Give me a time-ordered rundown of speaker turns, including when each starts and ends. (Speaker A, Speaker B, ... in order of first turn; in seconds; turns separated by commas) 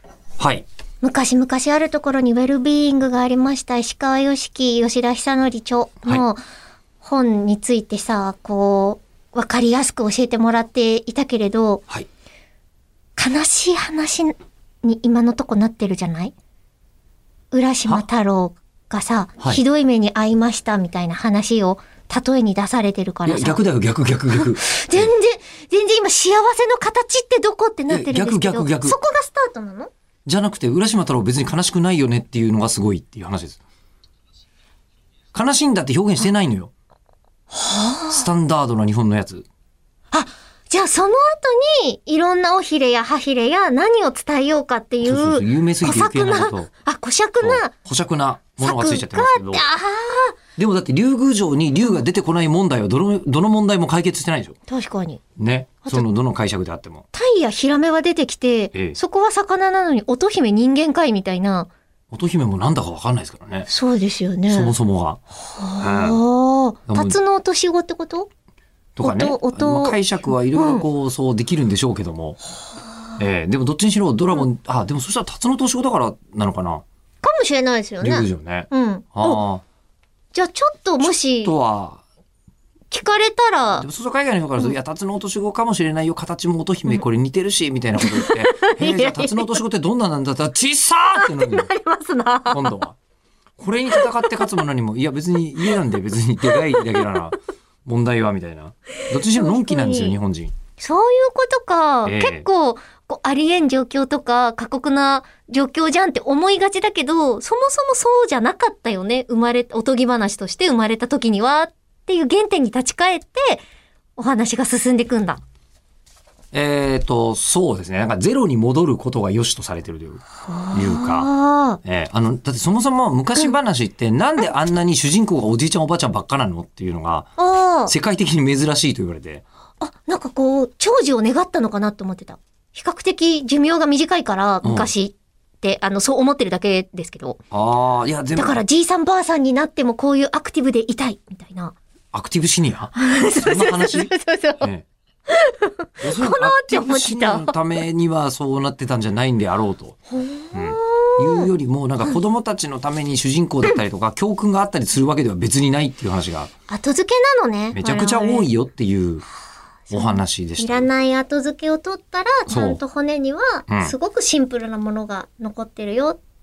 Speaker A: 0.4-0.7, Speaker B: 1.0-6.4, Speaker B: 7.0-11.8, Speaker B: 13.2-16.3, Speaker B: 17.5-23.6, Speaker A: 23.2-25.1, Speaker B: 24.3-29.9, Speaker A: 27.9-28.9, Speaker A: 30.2-33.6, Speaker A: 35.3-36.7, Speaker B: 37.5-38.2, Speaker A: 38.1-39.5, Speaker B: 40.1-47.7, Speaker A: 45.0-46.7, Speaker A: 47.4-49.6, Speaker B: 48.6-50.4, Speaker A: 50.6-54.6, Speaker B: 54.7-55.2, Speaker A: 55.4-57.0, Speaker B: 57.1-61.7, Speaker A: 62.1-63.7, Speaker B: 63.7-64.7, Speaker A: 64.5-65.2, Speaker B: 65.5-68.3, Speaker A: 65.8-66.2, Speaker A: 66.9-67.2, Speaker A: 69.0-72.4, Speaker B: 69.0-70.0, Speaker B: 70.5-70.8, Speaker A: 73.2-76.8, Speaker B: 77.2-79.4, Speaker A: 78.0-79.6, Speaker B: 80.3-81.5, Speaker A: 81.0-82.0, Speaker B: 82.9-83.9, Speaker A: 83.8-91.7, Speaker B: 88.0-89.6, Speaker B: 91.2-92.8, Speaker A: 92.5-93.0, Speaker A: 93.6-100.5, Speaker B: 93.9-94.5, Speaker B: 96.5-97.2, Speaker B: 99.2-100.1, Speaker B: 100.8-113.6, Speaker A: 102.0-102.5, Speaker B: 114.2-115.4, Speaker A: 116.5-120.2, Speaker B: 120.5-121.8, Speaker A: 120.7-121.3, Speaker A: 121.8-127.3, Speaker B: 127.4-127.9, Speaker A: 127.9-129.4, Speaker B: 129.8-137.4, Speaker A: 134.6-134.9, Speaker A: 137.5-138.6, Speaker B: 138.3-141.7, Speaker A: 142.1-144.8, Speaker B: 143.0-144.7, Speaker B: 145.3-147.6, Speaker A: 146.0-150.0, Speaker B: 150.1-151.5, Speaker A: 150.5-156.5, Speaker B: 156.7-158.5, Speaker A: 157.7-159.2, Speaker B: 159.9-166.2, Speaker A: 159.9-160.9, Speaker A: 162.5-162.8, Speaker A: 163.7-163.9